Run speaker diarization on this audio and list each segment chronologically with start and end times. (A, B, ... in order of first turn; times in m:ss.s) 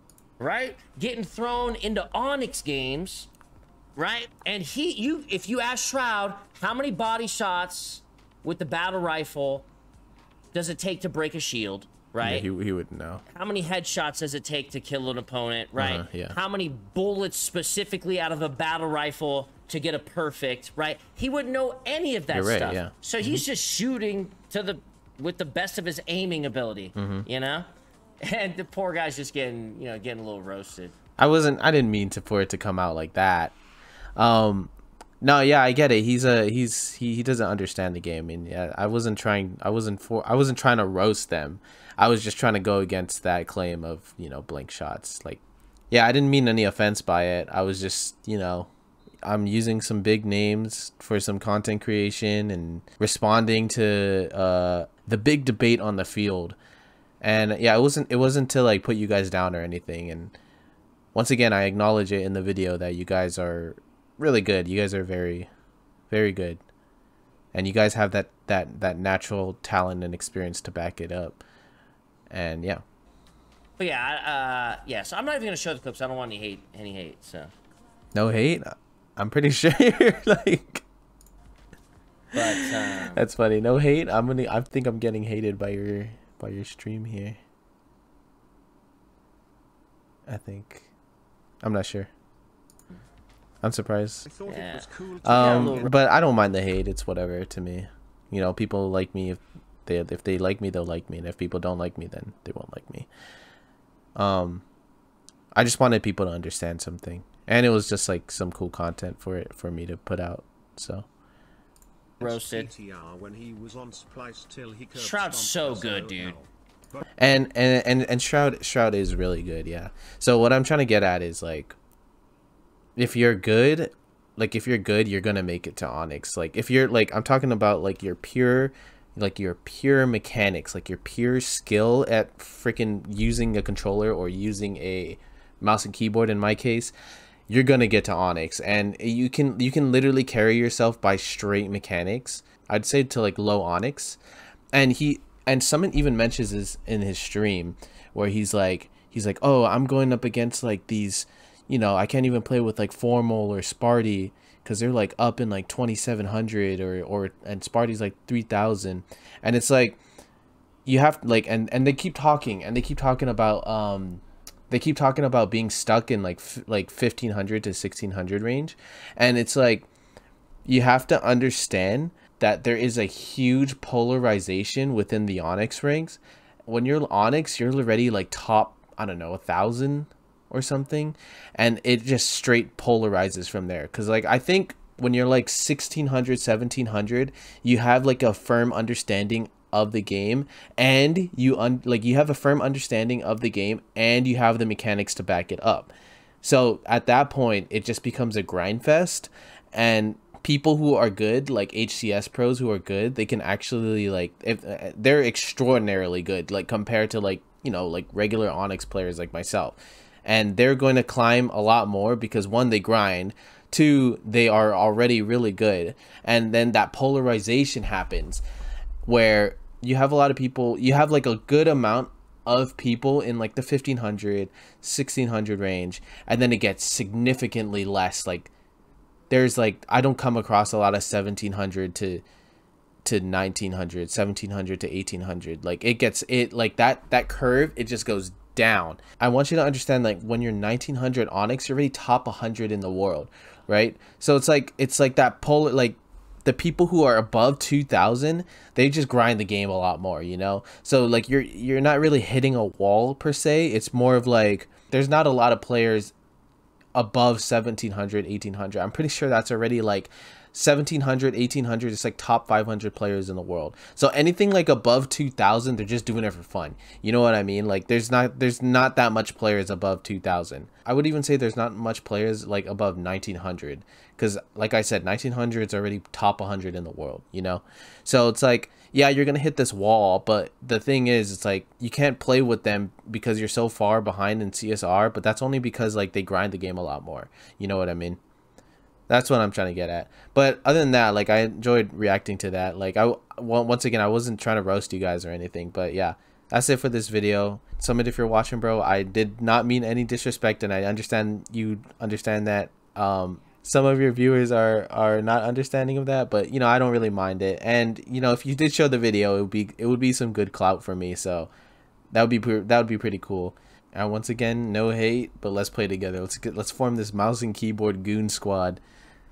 0:00.4-0:03.3 A
0:04.0-0:09.7 A
0:10.5-0:12.5 A
0:12.2-0:13.2 B
0:13.3-0:27.7 A
0:15.8-0:16.4 B
0:22.3-0:23.4 B
0:27.0-0:27.3 B
0:28.2-0:31.0 A
0:31.2-0:33.6 B
0:34.2-0:48.7 B
0:49.2-0:56.6 B
0:57.2-1:00.4 B
1:01.1-1:05.5 B
1:06.1-1:06.6 B
1:07.5-1:11.4 B
1:12.3-1:12.8 B
1:13.8-1:17.5 A
1:18.1-1:20.8 B
1:22.3-1:23.2 A
1:22.4-1:27.4 B
1:30.3-1:30.9 B
1:31.6-1:32.1 B
1:33.6-1:34.3 B
1:34.3-1:35.9 C
1:34.5-1:35.9 A
1:35.2-1:43.1 B
1:44.2-1:44.6 B
1:45.6-1:51.1 B
1:52.2-1:57.0 C
1:52.2-1:52.7 A
1:55.0-1:56.4 A
1:57.2-2:01.8 B
2:03.0-2:16.9 B
2:17.5-2:24.2 B
2:24.7-2:40.0 B
2:40.9-2:49.9 B
2:50.6-3:15.9 B
3:16.4-3:38.4 B
3:39.0-3:48.5 B
3:49.3-3:52.2 B
3:53.0-4:16.1 B
4:17.0-4:48.2 B
4:49.1-5:11.5 B
5:12.1-5:18.8 B